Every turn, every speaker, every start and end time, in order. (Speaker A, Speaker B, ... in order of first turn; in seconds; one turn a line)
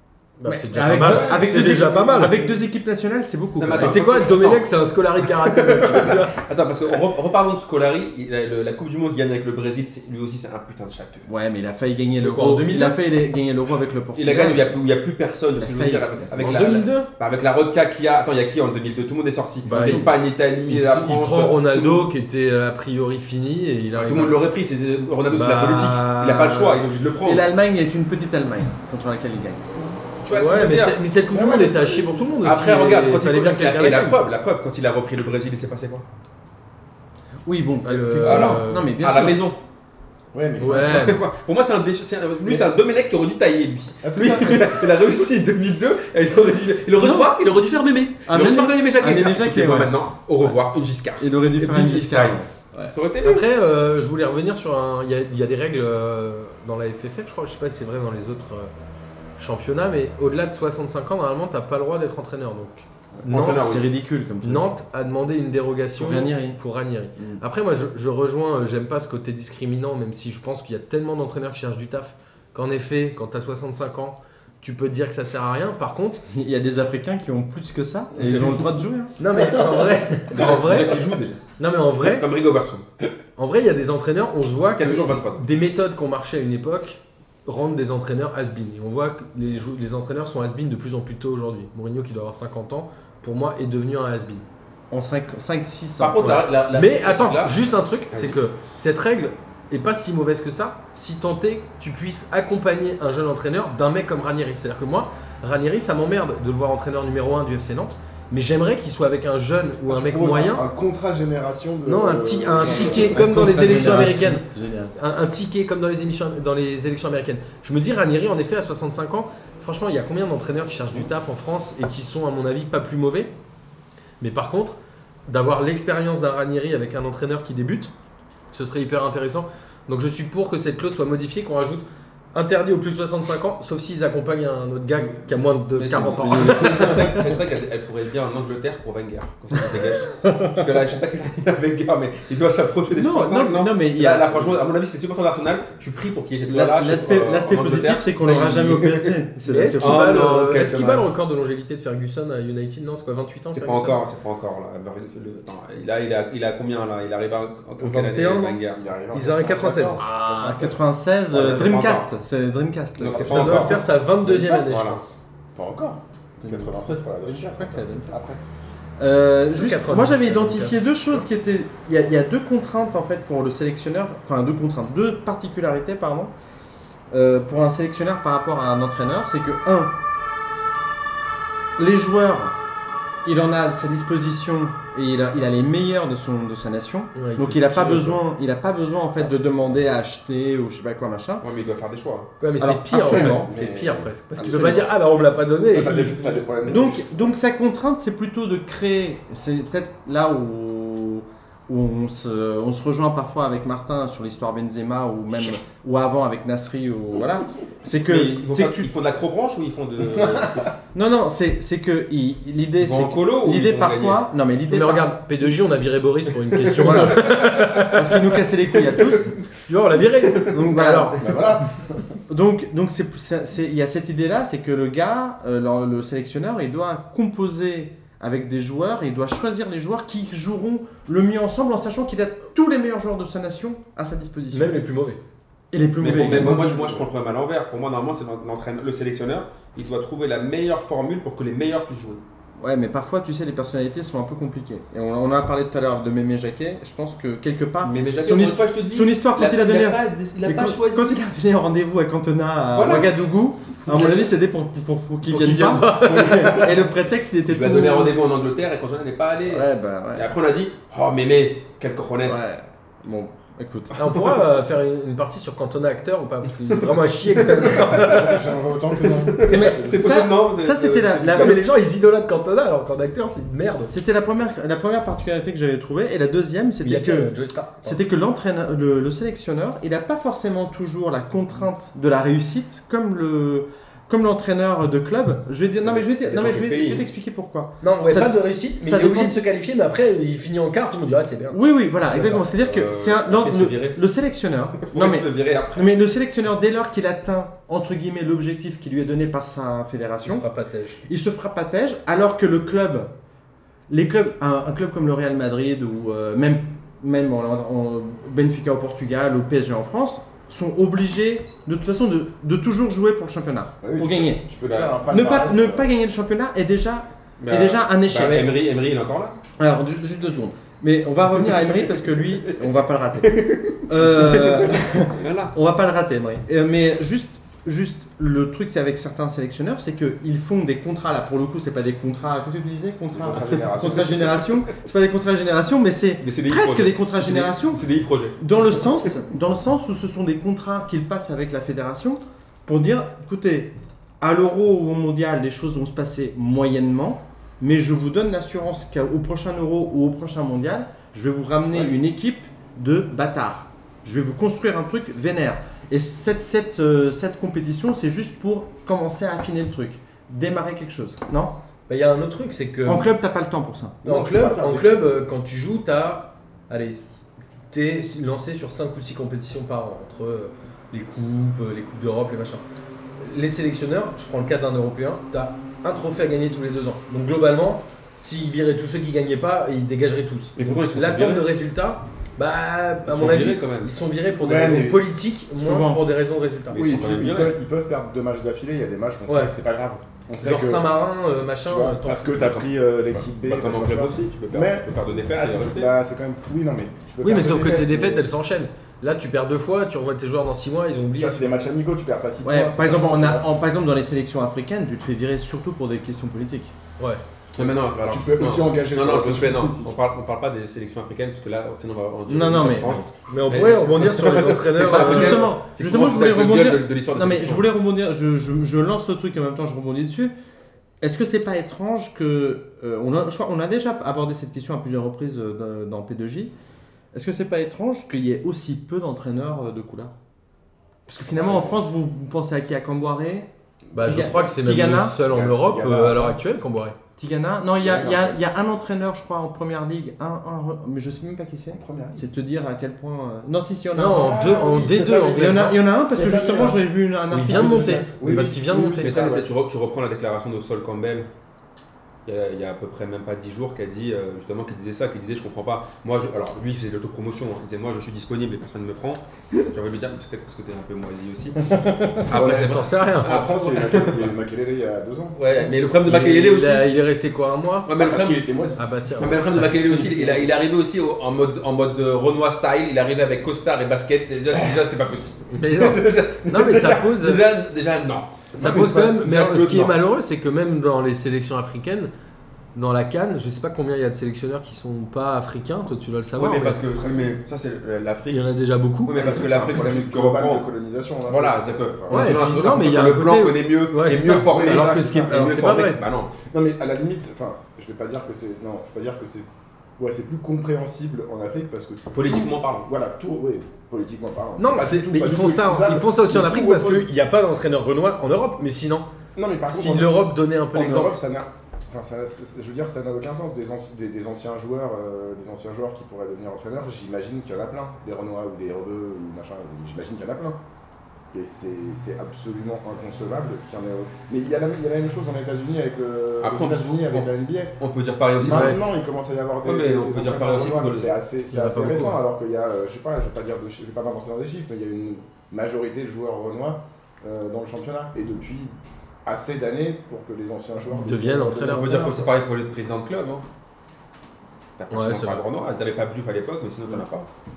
Speaker A: 0.4-2.3
Speaker B: 0.5-4.0
Speaker C: 0.9-2.4
Speaker D: 3.6-11.3
Speaker A: 3.8-6.4
Speaker B: 11.2-14.8
Speaker A: 12.2-13.0
Speaker D: 14.1-22.1
Speaker B: 15.6-16.8
Speaker A: 16.4-17.1
Speaker A: 19.6-20.1
Speaker B: 19.7-20.1
Speaker A: 20.6-24.4
Speaker D: 24.0-27.5
Speaker A: 25.3-26.8
Speaker B: 27.2-29.9
Speaker D: 30.2-31.0
Speaker A: 30.3-34.2
Speaker C: 31.3-32.3
Speaker D: 32.4-36.0
Speaker B: 37.4-39.5
Speaker A: 37.9-38.9
Speaker D: 38.2-39.6
Speaker C: 40.3-41.1
Speaker A: 40.6-41.2
Speaker D: 40.6-53.5
Speaker C: 44.0-44.9
Speaker B: 47.0-47.3
Speaker B: 48.2-49.9
Speaker B: 51.2-52.9
Speaker A: 53.2-58.7
Speaker A: 59.4-63.7
Speaker B: 63.2-64.7
Speaker D: 63.2-63.8
Speaker A: 64.4-76.2
Speaker B: 66.0-66.6
Speaker B: 67.2-67.4
Speaker B: 76.3-79.1
Speaker D: 78.1-78.7
Speaker A: 79.2-81.0
Speaker D: 80.3-81.4
Speaker A: 81.6-82.2
Speaker D: 82.0-82.8
Speaker A: 83.4-94.4
Speaker D: 84.8-85.4
Speaker B: 94.9-96.5
Speaker D: 96.0-97.6
Speaker A: 96.7-110.6
Speaker D: 98.1-98.4
Speaker C: 109.9-113.2
Speaker A: 111.8-123.3
Speaker B: 112.6-114.9
Speaker A: 124.2-127.9
Speaker A: 128.5-137.3
Speaker D: 135.8-149.2
Speaker B: 136.0-137.3
Speaker B: 140.2-140.7
Speaker B: 142.9-144.6
Speaker B: 146.5-150.2
Speaker A: 149.5-154.0
Speaker D: 149.7-151.1
Speaker D: 153.5-158.8
Speaker A: 157.8-160.8
Speaker C: 158.7-160.7
Speaker B: 160.0-163.8
Speaker D: 161.3-162.1
Speaker D: 163.0-165.0
Speaker C: 163.0-163.7
Speaker A: 163.2-165.2
Speaker C: 165.5-168.4
Speaker B: 166.4-168.3
Speaker B: 169.0-176.3
Speaker A: 169.5-171.3
Speaker B: 177.1-179.9
Speaker B: 181.8-182.6
Speaker B: 183.2-191.4
Speaker A: 187.1-188.2
Speaker C: 189.1-189.8
Speaker D: 191.4-192.3
Speaker A: 192.4-196.5
Speaker B: 192.6-193.5
Speaker C: 193.0-194.9
Speaker B: 194.4-194.8
Speaker C: 195.7-197.3
Speaker B: 196.6-208.9
Speaker D: 208.1-210.7
Speaker B: 210.9-215.1
Speaker D: 212.8-214.3
Speaker A: 214.7-218.3
Speaker D: 216.6-218.0
Speaker B: 216.8-219.4
Speaker D: 218.8-219.2
Speaker A: 219.6-221.5
Speaker B: 220.4-221.4
Speaker C: 221.2-222.0
Speaker B: 222.3-234.8
Speaker A: 234.5-235.2
Speaker B: 235.7-237.0
Speaker D: 236.0-242.2
Speaker B: 242.6-258.1
Speaker D: 247.8-251.2
Speaker D: 252.7-253.1
Speaker D: 253.8-254.3
Speaker D: 255.3-256.9
Speaker A: 255.3-256.7
Speaker D: 257.4-262.4
Speaker B: 259.5-260.3
Speaker B: 262.2-264.1
Speaker A: 263.9-268.4
Speaker D: 267.4-268.4
Speaker C: 267.4-270.0
Speaker D: 269.0-271.6
Speaker B: 269.4-271.6
Speaker A: 271.4-273.9
Speaker B: 273.6-277.3
Speaker A: 276.8-278.0
Speaker B: 277.8-289.3
Speaker D: 285.8-287.1
Speaker A: 287.8-291.6
Speaker B: 291.5-300.5
Speaker D: 292.0-294.0
Speaker D: 294.8-295.9
Speaker A: 300.2-301.0
Speaker B: 301.1-303.1
Speaker B: 303.9-318.5
Speaker C: 313.8-315.9
Speaker D: 314.6-314.9
Speaker D: 317.4-319.4
Speaker B: 319.6-337.8
Speaker D: 323.2-325.5
Speaker C: 333.1-334.6
Speaker D: 333.4-334.3
Speaker D: 336.2-339.1
Speaker B: 338.4-361.6
Speaker A: 361.9-363.1
Speaker B: 362.9-364.0
Speaker C: 364.0-364.9
Speaker A: 364.0-367.0
Speaker A: 367.7-372.6
Speaker A: 373.2-387.0
Speaker D: 380.6-381.5
Speaker D: 383.1-383.9
Speaker C: 384.4-385.1
Speaker B: 385.6-386.0
Speaker D: 386.7-387.6
Speaker C: 386.7-390.9
Speaker A: 390.4-392.7
Speaker C: 391.6-398.2
Speaker D: 393.4-395.9
Speaker A: 397.2-401.6
Speaker C: 401.1-403.5
Speaker B: 402.4-406.7
Speaker D: 407.6-417.7
Speaker C: 407.6-410.0
Speaker B: 412.3-413.1
Speaker A: 413.3-415.5
Speaker B: 414.1-420.3
Speaker B: 421.0-426.5
Speaker B: 427.1-430.1
Speaker B: 431.1-435.2
Speaker C: 431.3-431.8
Speaker C: 433.9-434.6
Speaker A: 433.9-436.9
Speaker C: 435.2-436.4
Speaker B: 437.2-444.3
Speaker C: 437.7-438.4
Speaker C: 441.7-442.3
Speaker A: 443.9-445.8
Speaker C: 444.1-446.8
Speaker B: 445.3-448.4
Speaker A: 447.3-449.2
Speaker C: 447.4-449.5
Speaker D: 449.0-451.3
Speaker D: 452.2-464.4
Speaker B: 461.6-462.2
Speaker A: 462.3-463.7
Speaker C: 462.3-465.4
Speaker D: 465.3-466.9
Speaker A: 466.0-467.9
Speaker D: 467.9-468.5
Speaker C: 468.0-468.8
Speaker A: 468.8-470.1
Speaker D: 469.2-480.0
Speaker A: 475.5-477.4
Speaker A: 478.5-482.1
Speaker A: 482.7-486.8
Speaker D: 486.4-488.5
Speaker C: 487.0-487.3
Speaker A: 488.3-489.5
Speaker D: 489.0-490.7
Speaker C: 489.1-492.7
Speaker D: 491.3-496.3
Speaker A: 492.1-496.0
Speaker C: 494.5-495.1
Speaker B: 495.2-495.8
Speaker C: 496.5-499.5
Speaker C: 500.0-507.1
Speaker D: 502.1-502.9
Speaker A: 504.6-509.1
Speaker C: 509.4-520.6
Speaker A: 509.7-511.1
Speaker C: 521.3-527.8
Speaker D: 526.4-528.8
Speaker C: 528.4-542.3
Speaker A: 528.5-528.8
Speaker D: 529.6-531.1
Speaker A: 531.5-532.2
Speaker A: 540.9-542.2
Speaker D: 541.6-543.4
Speaker D: 544.8-547.3
Speaker A: 544.9-545.4